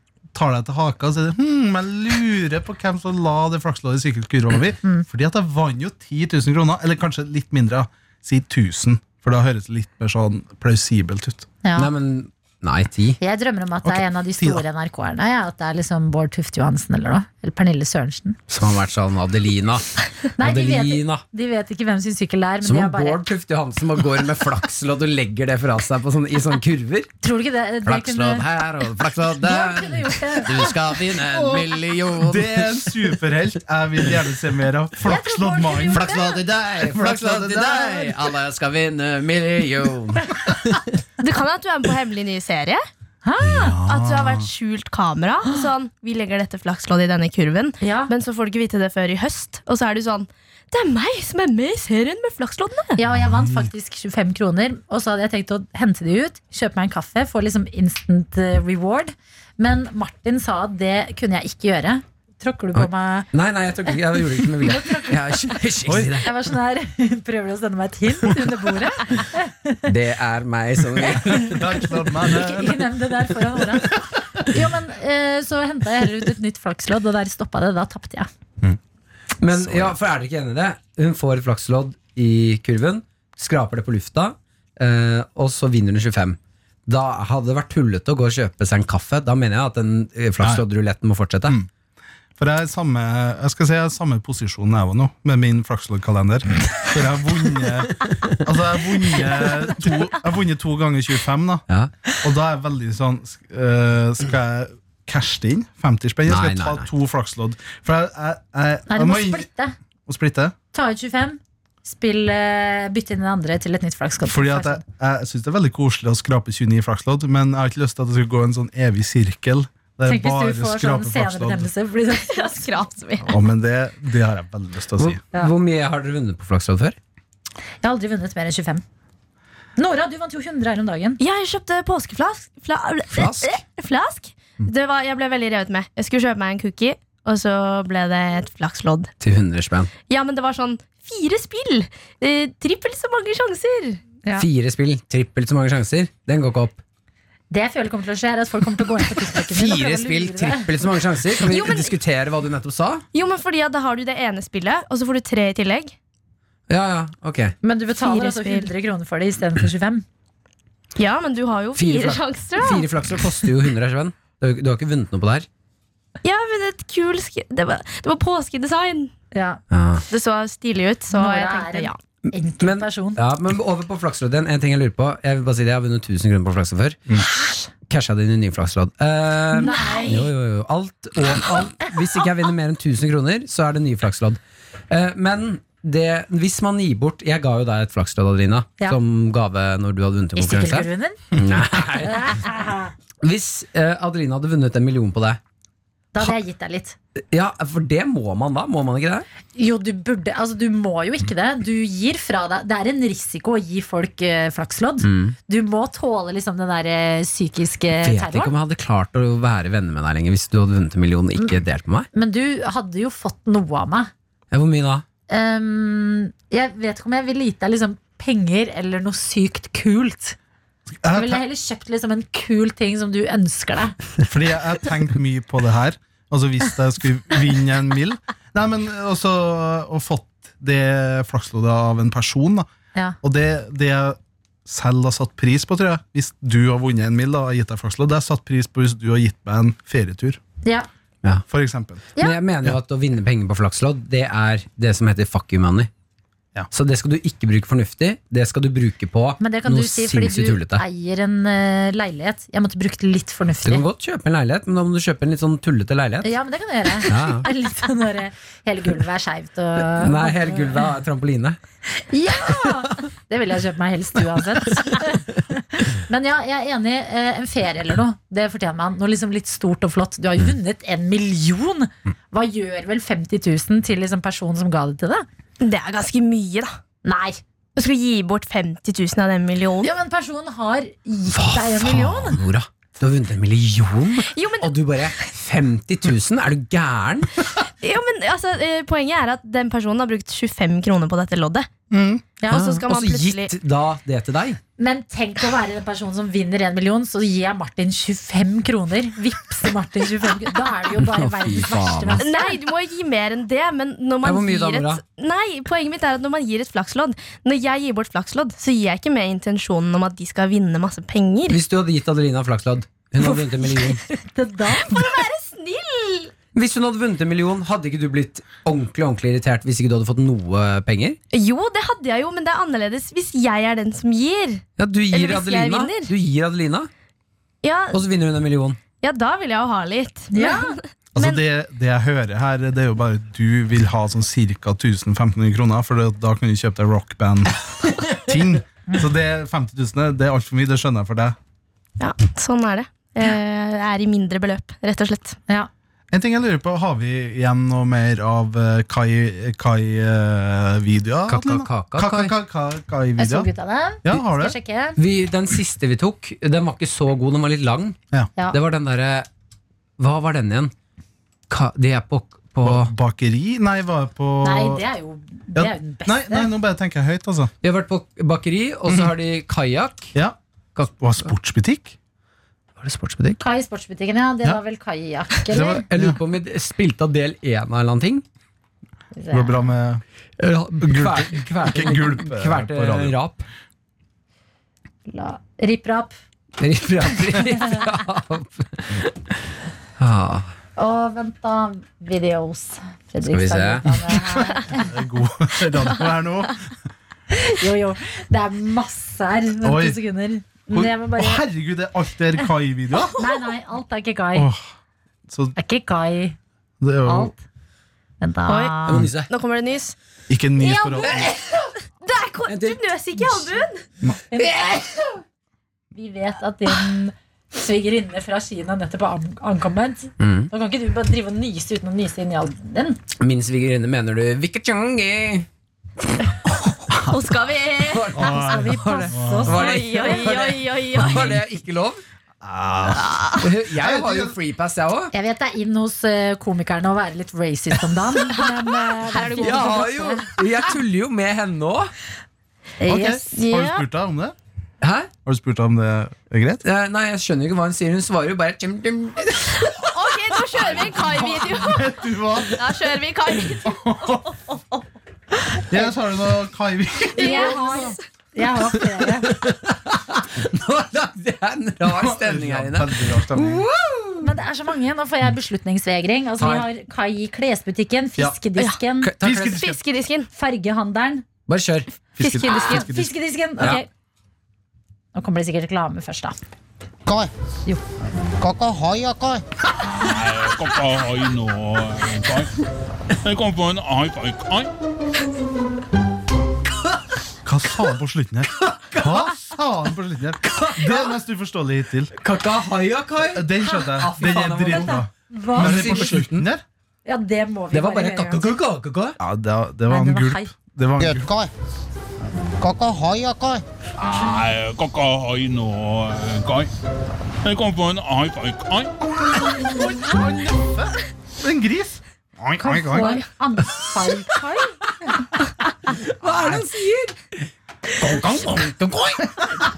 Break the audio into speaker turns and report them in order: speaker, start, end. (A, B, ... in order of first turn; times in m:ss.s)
0:00.3-0:11.5 A
0:11.6-0:11.9 B
0:11.8-0:13.2 C
0:13.2-0:18.4 B
0:13.8-0:14.6 A
0:18.5-0:21.2 C
0:20.4-0:23.2 B
0:22.6-0:27.1 C
0:27.2-0:28.4 B
0:27.8-0:33.1 C
0:29.4-0:30.7 B
0:31.2-0:38.3 A
0:35.0-0:36.4 B
0:35.9-0:40.9 C
0:41.2-0:42.8 D
0:43.2-0:43.8 B
0:43.4-0:44.5 A
0:43.9-0:53.0 D
0:47.8-0:48.1 B
0:53.0-1:03.3 B
0:53.1-0:53.7 A
1:02.8-1:06.3 C
1:04.6-1:05.4 B
1:05.9-1:06.2 A
1:06.2-1:09.9 B
1:09.9-1:11.7 C
1:11.1-1:12.9 A
1:12.2-1:18.3 B
1:19.4-1:31.6 C
1:19.7-1:19.9 A
1:32.4-1:41.7 A
1:38.0-1:38.4 C
1:42.2-1:49.5 A
1:46.3-1:46.9 C
1:48.9-1:49.8 B
1:50.1-1:50.6 A
1:50.7-1:54.8 B
1:54.2-2:01.7 A
2:00.0-2:02.6 B
2:02.2-2:03.3 D
2:03.3-2:05.2 A
2:05.0-2:07.0 C
2:07.8-2:08.8 B
2:09.8-2:11.2 B
2:11.2-2:19.1 D
2:13.1-2:13.6 C
2:19.2-2:19.9 C
2:20.1-2:24.0 D
2:24.4-2:26.8 C
2:27.5-2:30.7 B
2:29.3-2:33.0 C
2:31.4-2:31.9 D
2:33.1-2:36.0 D
2:36.7-2:37.6 C
2:37.6-2:40.0 B
2:38.0-2:38.7 D
2:41.0-2:43.4 D
2:41.8-2:45.5 C
2:46.2-2:49.1 D
2:49.3-2:49.6 B
2:49.7-2:50.0 C
2:50.1-2:52.0 D
2:51.1-2:53.2 B
2:52.3-2:57.2 C
2:57.9-3:04.4 C
2:59.5-3:00.3 B
3:04.9-3:12.4 C
3:10.4-3:11.3 B
3:12.0-3:12.9 B
3:13.2-3:15.4 C
3:16.1-3:17.0 B
3:17.3-3:19.3 C
3:19.6-3:28.5 B
3:25.0-3:25.4 C
3:28.0-3:32.1 C
3:32.1-3:34.1 B
3:34.5-3:35.0 C
3:35.3-3:40.4 B
3:41.0-3:41.4 A
3:41.1-3:44.0 B
3:44.2-3:52.7 A
3:53.2-4:00.4 A
4:01.5-4:02.0 A
4:02.2-4:05.9 C
4:06.7-4:10.8 C
4:09.4-4:13.8 B
4:13.6-4:16.3 C
4:16.2-4:20.9 B
4:17.0-4:17.5 C
4:20.0-4:21.6 C
4:22.0-4:35.3 B
4:35.6-4:36.8 D
4:37.0-4:37.4 B
4:37.8-4:39.9 D
4:39.8-4:42.4 B
4:41.3-4:47.5 C
4:44.3-4:44.7 D
4:47.8-4:51.7 D
4:51.9-4:52.2 A
4:52.5-4:53.5 D
4:52.5-4:54.6 C
4:54.8-5:02.6 B
5:01.0-5:02.2 C
5:02.2-5:11.6 D
5:04.2-5:05.0 C
5:11.5-5:14.0 C
5:13.2-5:15.1 B
5:14.7-5:16.3 D
5:16.6-5:21.2 C
5:21.3-5:26.1 D
5:24.8-5:26.9 C
5:27.6-5:28.0 D
5:27.9-5:28.8 C
5:29.0-5:31.4 D
5:30.3-5:30.8 B
5:31.2-5:41.4 A
5:37.8-5:38.2 C
5:42.0-5:45.4 D
5:46.1-5:53.5 A
5:51.3-5:52.3 C
5:53.2-5:55.0 B
5:54.0-5:54.6 A
5:55.0-5:58.0 C
5:58.5-5:59.3 C
6:00.0-6:00.7 C
6:01.5-6:02.9 C
6:02.6-6:04.8 A
6:04.4-6:06.5 B
6:05.5-6:07.5 A
6:07.6-6:10.1 C
6:10.8-6:11.3 C
6:11.0-6:12.0 A
6:12.8-6:13.4 C
6:13.4-6:15.8 B
6:15.5-6:16.2 A
6:15.9-6:18.2 C
6:19.2-6:19.7 B
6:19.3-6:20.0 A
6:20.4-6:23.5 C
6:20.8-6:23.2 A
6:25.1-6:26.1 B
6:26.6-6:29.1 C
6:30.0-6:30.5 C
6:30.8-6:34.9 B
6:33.3-6:34.2 C
6:34.4-6:36.7 A
6:37.3-6:41.4 B
6:39.6-6:40.0 A
6:40.7-6:43.2 A
6:43.0-6:43.5 D
6:43.2-6:44.5 B
6:44.4-6:44.6 A
6:45.3-6:45.6 A
6:45.6-6:46.4 B
6:46.8-6:47.3 A
6:47.0-6:47.4 B
6:48.2-6:48.9 B
6:48.5-6:50.0 D
6:48.9-6:49.3 C
6:50.3-6:51.3 A
6:50.6-6:51.4 D
6:51.0-6:51.4 C
6:52.0-6:53.8 D
6:52.5-6:53.5 C
6:54.3-6:54.6 B
6:54.4-6:55.2 C
6:55.9-7:03.0 B
7:00.2-7:00.5 C
7:03.2-7:05.5 C
7:06.9-7:08.3 D
7:07.9-7:12.0 C
7:08.2-7:09.6 A
7:08.2-7:10.4 B
7:09.5-7:11.4 D
7:11.0-7:11.4 A
7:12.4-7:13.2 A
7:12.9-7:13.4 D
7:13.4-7:15.1 C
7:13.7-7:14.4 A
7:15.1-7:20.3 B
7:19.0-7:19.9 D
7:19.4-7:21.9 C
7:22.8-7:23.3 B
7:22.9-7:24.4 A
7:23.3-7:23.8 D
7:24.8-7:25.1 C
7:25.2-7:26.6 A
7:26.6-7:29.8 C
7:29.7-7:31.8 D
7:30.5-7:30.9 C
7:30.9-7:32.6 A
7:32.5-7:34.8 D
7:33.5-7:34.2 A
7:35.7-7:37.6 A
7:37.2-7:38.0 D
7:37.2-7:39.3 B
7:38.9-7:44.3 C
7:41.8-7:43.7 A
7:44.2-7:49.1 B
7:46.4-7:46.7 C
7:48.6-7:50.3 D
7:49.0-7:49.6 C
7:49.2-7:49.8 A
7:50.4-7:51.2 B
7:51.5-7:51.9 C
7:52.2-7:53.1 A
7:52.2-7:52.9 D
7:52.7-7:53.9 B
7:55.2-7:56.4 B
7:57.1-7:57.3 E
7:58.4-7:59.4 E
7:59.8-8:02.5 F
8:03.2-8:04.7 F
8:07.4-8:12.1 A
8:09.0-8:09.2 C
8:10.5-8:11.1 C
8:12.2-8:15.0 C
8:13.3-8:16.6 A
8:14.7-8:16.2 B
8:15.5-8:16.5 C
8:17.1-8:18.5 B
8:17.7-8:19.2 C
8:19.2-8:21.3 A
8:19.9-8:20.5 B
8:21.0-8:21.5 E
8:22.6-8:23.6 E
8:24.0-8:26.7 F
8:27.4-8:29.0 F
8:29.4-8:33.2 A
8:32.6-8:35.3 B
8:32.9-8:33.2 D
8:35.9-8:37.5 C
8:36.2-8:36.6 A
8:38.0-8:39.3 C